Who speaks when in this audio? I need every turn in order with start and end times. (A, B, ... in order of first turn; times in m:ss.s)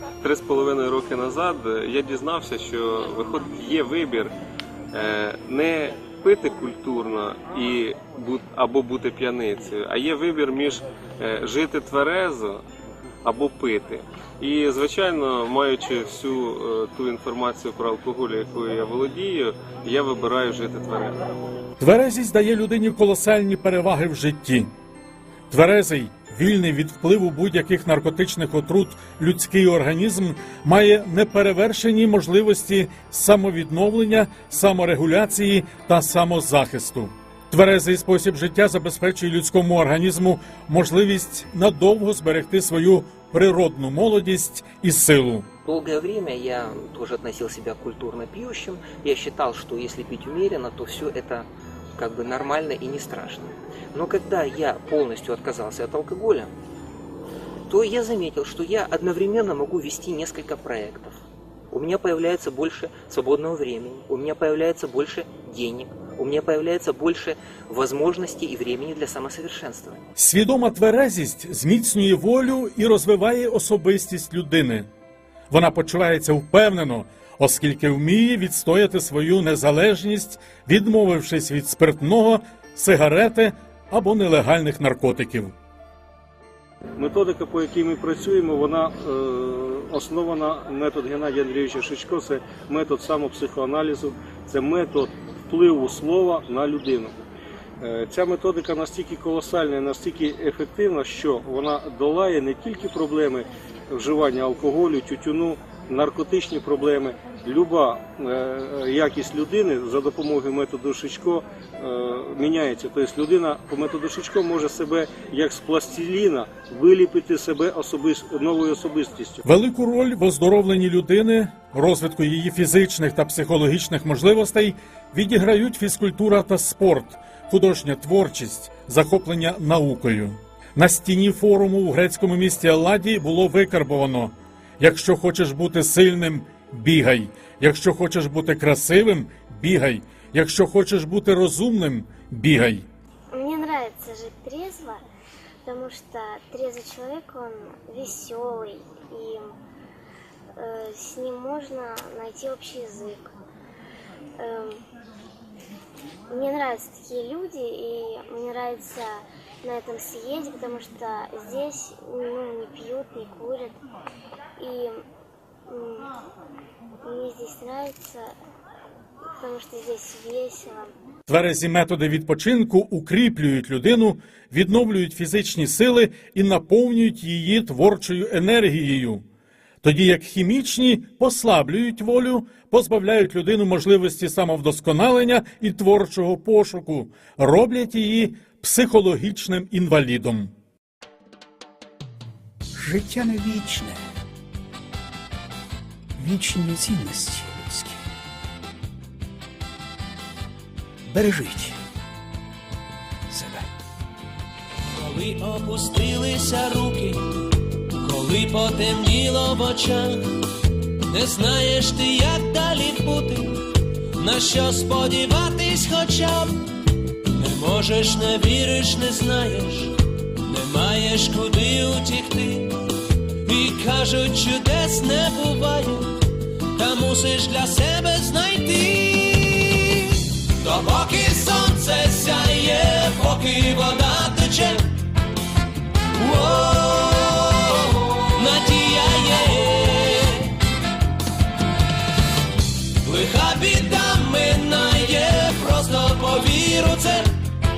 0:00.2-0:04.3 A
0:04.9-0:12.6 A
0:13.2-0:21.2 A
0:21.8-0:24.7 B
0:25.5-0:45.5 B
0:45.6-0:56.5 C
0:57.7-1:10.0 C
1:10.2-1:14.9 B
1:15.5-1:25.5 B
1:27.0-1:37.2 D
1:37.8-1:59.4 D
1:59.4-2:22.9 B
2:23.3-2:25.0 E
2:25.7-2:29.5 E
2:30.6-2:33.3 E
2:34.4-2:34.8 E
2:36.3-2:43.8 E
2:44.6-2:45.0 E
2:45.7-2:46.1 E
2:47.0-2:48.3 E
2:49.3-2:50.9 E
2:51.3-2:59.2 B
2:59.8-3:10.5 B
3:12.8-3:14.0 F
3:16.2-3:18.0 F
3:21.1-3:21.8 F
3:23.3-3:23.8 F
3:24.9-3:30.4 G
3:31.0-3:36.7 G
3:37.3-3:42.8 G
3:43.4-3:54.9 G
3:56.2-4:00.6 G
4:03.0-4:07.4 G